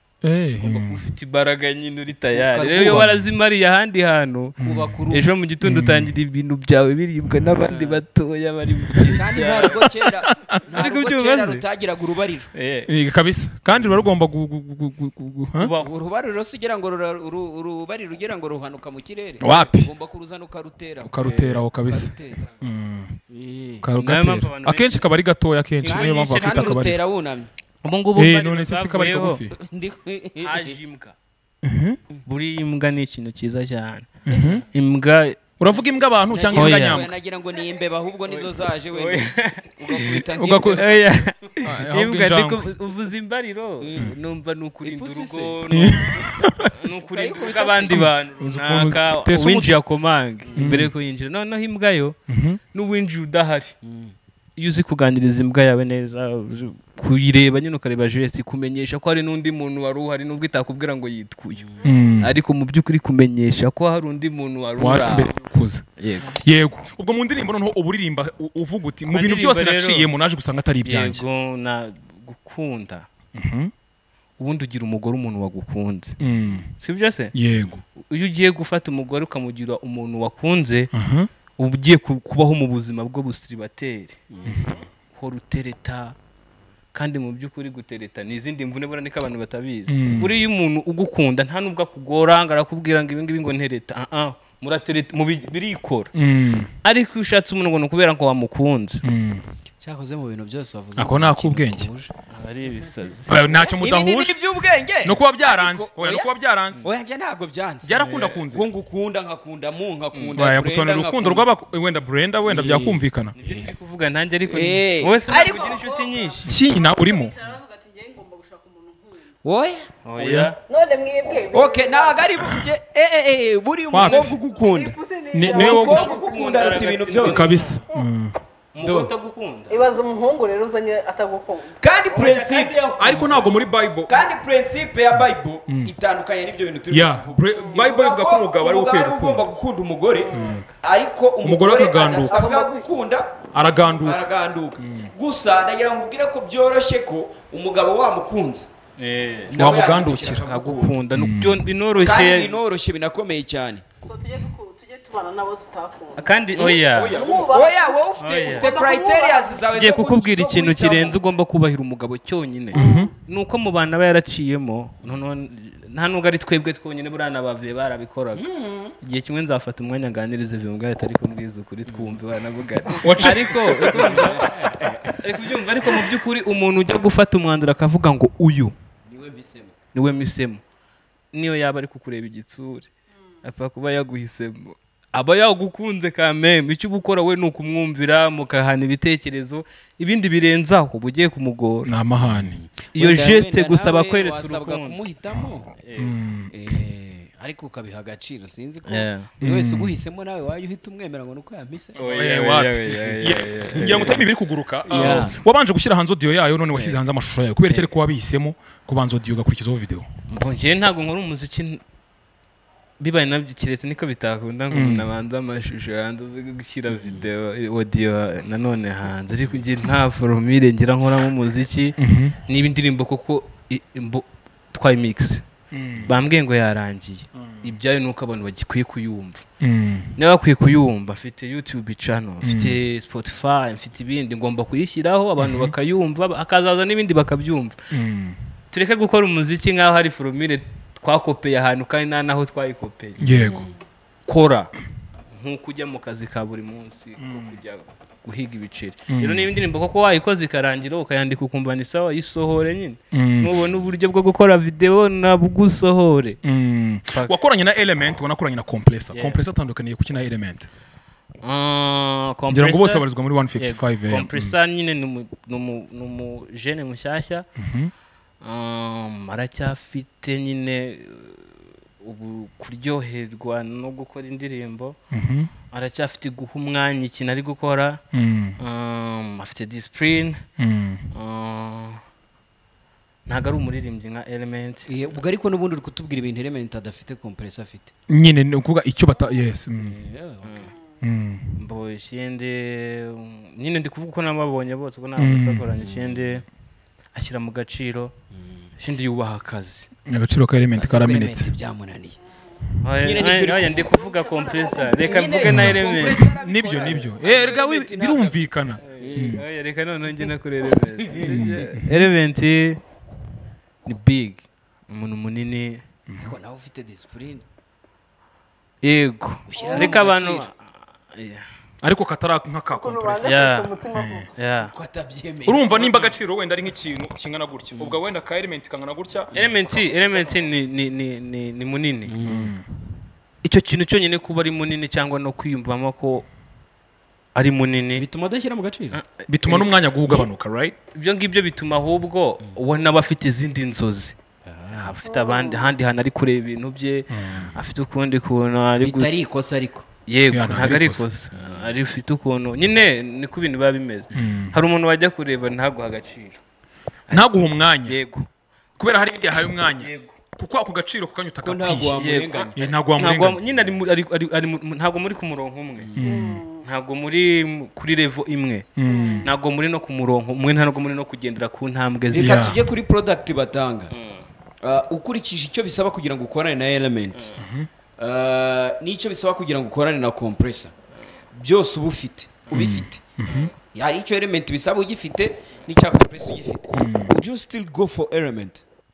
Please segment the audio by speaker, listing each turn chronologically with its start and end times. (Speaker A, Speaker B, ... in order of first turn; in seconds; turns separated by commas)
Speaker A: 0.2-1.0, Speaker B: 0.6-4.6, Speaker C: 2.4-3.1, Speaker A: 4.6-4.9, Speaker C: 4.6-5.3, Speaker B: 5.1-9.8, Speaker A: 5.6-6.1, Speaker C: 7.6-8.0, Speaker C: 9.0-12.5, Speaker A: 10.3-10.6, Speaker B: 10.8-11.6, Speaker B: 12.5-12.9, Speaker A: 12.9-15.7, Speaker B: 15.6-15.9, Speaker C: 15.8-22.5, Speaker A: 19.4-19.9, Speaker A: 21.0-23.2, Speaker C: 23.3-23.9, Speaker A: 23.8-27.0, Speaker B: 24.0-25.0, Speaker C: 25.8-27.5, Speaker B: 27.8-29.4, Speaker A: 28.2-29.6, Speaker C: 29.5-30.8, Speaker B: 30.4-31.2, Speaker A: 31.6-32.0, Speaker B: 32.2-35.4, Speaker A: 34.3-34.6, Speaker C: 34.3-34.6, Speaker A: 35.6-37.1, Speaker C: 36.3-41.0, Speaker B: 36.5-37.0, Speaker B: 38.9-39.6, Speaker A: 40.0-40.8, Speaker B: 40.7-46.1, Speaker A: 41.6-42.7, Speaker C: 43.8-44.1, Speaker C: 44.8-48.1, Speaker A: 45.7-46.7, Speaker B: 46.6-52.2, Speaker A: 47.9-49.7, Speaker C: 50.5-50.8, Speaker A: 50.6-50.9, Speaker A: 52.3-52.6, Speaker B: 52.7-53.8, Speaker C: 53.8-54.2, Speaker B: 54.6-61.7, Speaker C: 61.6-61.9, Speaker D: 61.8-62.1, Speaker A: 61.8-62.3, Speaker B: 62.2-65.4, Speaker A: 64.8-71.2, Speaker B: 66.0-66.4, Speaker B: 69.1-70.1, Speaker B: 70.8-73.1, Speaker A: 73.3-73.7, Speaker B: 74.4-76.2, Speaker A: 76.2-76.7, Speaker B: 76.8-77.3, Speaker A: 77.3-77.8, Speaker B: 78.0-80.9, Speaker A: 80.9-81.3, Speaker B: 81.6-86.2, Speaker C: 84.3-84.7, Speaker A: 84.5-84.8, Speaker B: 86.9-96.1, Speaker A: 89.9-90.3, Speaker A: 96.2-96.7, Speaker B: 96.8-99.0, Speaker A: 99.0-99.5, Speaker C: 99.8-102.1, Speaker A: 101.0-101.9, Speaker B: 102.3-103.3, Speaker A: 103.3-104.4, Speaker C: 103.4-111.5, Speaker A: 105.0-106.8, Speaker A: 107.8-108.7, Speaker B: 108.0-108.4, Speaker B: 110.1-110.4, Speaker A: 110.3-113.3, Speaker C: 112.5-113.7, Speaker B: 113.4-116.6, Speaker C: 114.5-116.0, Speaker D: 115.2-119.3, Speaker A: 116.5-117.4, Speaker C: 119.4-119.9, Speaker B: 120.0-120.6, Speaker A: 120.2-120.5, Speaker D: 120.7-122.4, Speaker C: 121.5-127.5, Speaker A: 123.9-124.3, Speaker D: 124.0-126.2, Speaker A: 125.3-126.1, Speaker B: 125.8-127.7, Speaker A: 127.2-128.3, Speaker B: 128.7-129.9, Speaker C: 128.8-129.1, Speaker D: 129.7-132.3, Speaker C: 131.8-143.4, Speaker B: 132.1-132.9, Speaker A: 133.0-134.2, Speaker A: 136.9-139.4, Speaker D: 140.2-140.6, Speaker A: 140.3-140.6, Speaker A: 141.4-142.4, Speaker D: 142.3-142.9, Speaker A: 143.5-144.3, Speaker C: 143.9-148.7, Speaker A: 144.8-145.1, Speaker B: 149.0-149.6, Speaker C: 149.5-151.0, Speaker A: 149.6-150.5, Speaker B: 150.2-152.6, Speaker A: 151.2-151.6, Speaker C: 152.0-154.0, Speaker D: 154.0-156.3, Speaker B: 156.2-157.2, Speaker C: 156.6-161.2, Speaker A: 156.7-157.4, Speaker D: 157.1-159.7, Speaker B: 158.2-158.9, Speaker B: 159.7-168.5, Speaker A: 162.7-163.1, Speaker D: 162.8-163.1, Speaker C: 168.4-168.9, Speaker B: 169.0-178.8, Speaker C: 171.9-172.2, Speaker A: 173.0-174.3, Speaker C: 173.9-175.2, Speaker C: 179.1-179.7, Speaker B: 179.9-180.6, Speaker B: 181.3-182.9, Speaker B: 183.4-191.9, Speaker A: 191.9-192.6, Speaker C: 192.4-195.7, Speaker B: 192.9-195.0, Speaker B: 195.8-196.2, Speaker A: 196.0-196.5, Speaker C: 196.5-202.0, Speaker B: 198.9-199.3, Speaker A: 199.4-199.9, Speaker B: 202.0-204.2, Speaker A: 202.0-210.1, Speaker C: 204.9-205.3, Speaker B: 204.9-205.3, Speaker B: 210.3-211.8, Speaker B: 213.0-225.5, Speaker A: 214.7-215.1, Speaker C: 216.9-217.2, Speaker A: 222.0-222.4, Speaker A: 225.7-226.1, Speaker B: 226.1-229.4, Speaker A: 229.6-230.1, Speaker B: 230.2-237.8, Speaker A: 232.4-232.8, Speaker A: 235.4-235.7, Speaker A: 237.9-238.4, Speaker B: 238.7-243.3, Speaker A: 243.2-243.7, Speaker C: 243.2-243.7, Speaker B: 244.3-244.7, Speaker B: 245.3-256.4, Speaker A: 247.2-247.5, Speaker A: 249.1-249.5, Speaker A: 253.1-253.6, Speaker A: 256.4-260.7, Speaker B: 259.1-259.4, Speaker B: 261.4-263.1, Speaker A: 262.5-264.5, Speaker B: 263.6-267.5, Speaker A: 267.6-267.9, Speaker B: 268.4-275.0, Speaker A: 275.1-275.5, Speaker B: 275.7-278.0, Speaker A: 278.1-278.6, Speaker B: 278.6-280.4, Speaker A: 280.6-281.1, Speaker B: 281.1-282.0, Speaker B: 283.3-285.1, Speaker C: 284.9-287.9, Speaker A: 288.1-290.0, Speaker C: 289.8-290.7, Speaker B: 290.4-290.7, Speaker A: 291.0-291.6, Speaker B: 291.6-296.4, Speaker A: 295.2-295.7, Speaker C: 295.8-296.4, Speaker B: 297.1-298.1, Speaker B: 298.8-299.9, Speaker A: 300.1-301.5, Speaker C: 300.7-302.2, Speaker B: 302.8-306.3, Speaker C: 303.0-309.4, Speaker D: 303.9-305.0, Speaker A: 305.4-309.4, Speaker B: 308.9-312.8, Speaker C: 311.0-311.7, Speaker A: 311.2-311.9, Speaker B: 313.9-315.8, Speaker A: 316.1-316.4, Speaker C: 316.2-317.4, Speaker B: 318.8-321.4, Speaker C: 319.5-320.5, Speaker D: 319.6-319.9, Speaker A: 321.8-324.3, Speaker D: 322.8-324.3, Speaker B: 323.2-323.7, Speaker B: 324.4-324.7, Speaker C: 324.6-325.7, Speaker A: 325.5-329.3, Speaker B: 325.8-326.1, Speaker C: 329.3-330.4, Speaker B: 329.3-332.2, Speaker C: 332.1-332.6, Speaker A: 332.2-332.6, Speaker B: 333.4-336.3, Speaker B: 337.4-338.1, Speaker C: 338.0-339.0, Speaker B: 338.9-340.2, Speaker A: 339.3-340.8, Speaker B: 340.9-344.2, Speaker C: 344.4-345.0, Speaker B: 344.7-349.1, Speaker D: 345.1-345.7, Speaker A: 347.1-347.5, Speaker C: 348.8-349.9, Speaker B: 350.1-356.4, Speaker A: 350.3-351.0, Speaker C: 351.3-351.7, Speaker A: 354.1-354.5, Speaker B: 357.1-358.3, Speaker A: 357.1-358.0, Speaker A: 358.8-363.4, Speaker B: 359.8-360.2, Speaker C: 361.4-362.6, Speaker B: 361.9-365.9, Speaker A: 365.9-366.4, Speaker D: 366.0-366.6, Speaker B: 366.6-368.7, Speaker A: 368.8-369.3, Speaker D: 368.9-369.3, Speaker B: 369.2-372.5, Speaker A: 372.1-372.6, Speaker C: 372.1-373.9, Speaker B: 373.9-374.2, Speaker C: 374.6-377.3, Speaker A: 377.4-377.7, Speaker C: 378.0-380.7, Speaker C: 381.3-383.0, Speaker A: 382.5-383.5, Speaker B: 383.2-383.5, Speaker C: 383.6-388.6, Speaker A: 386.8-387.1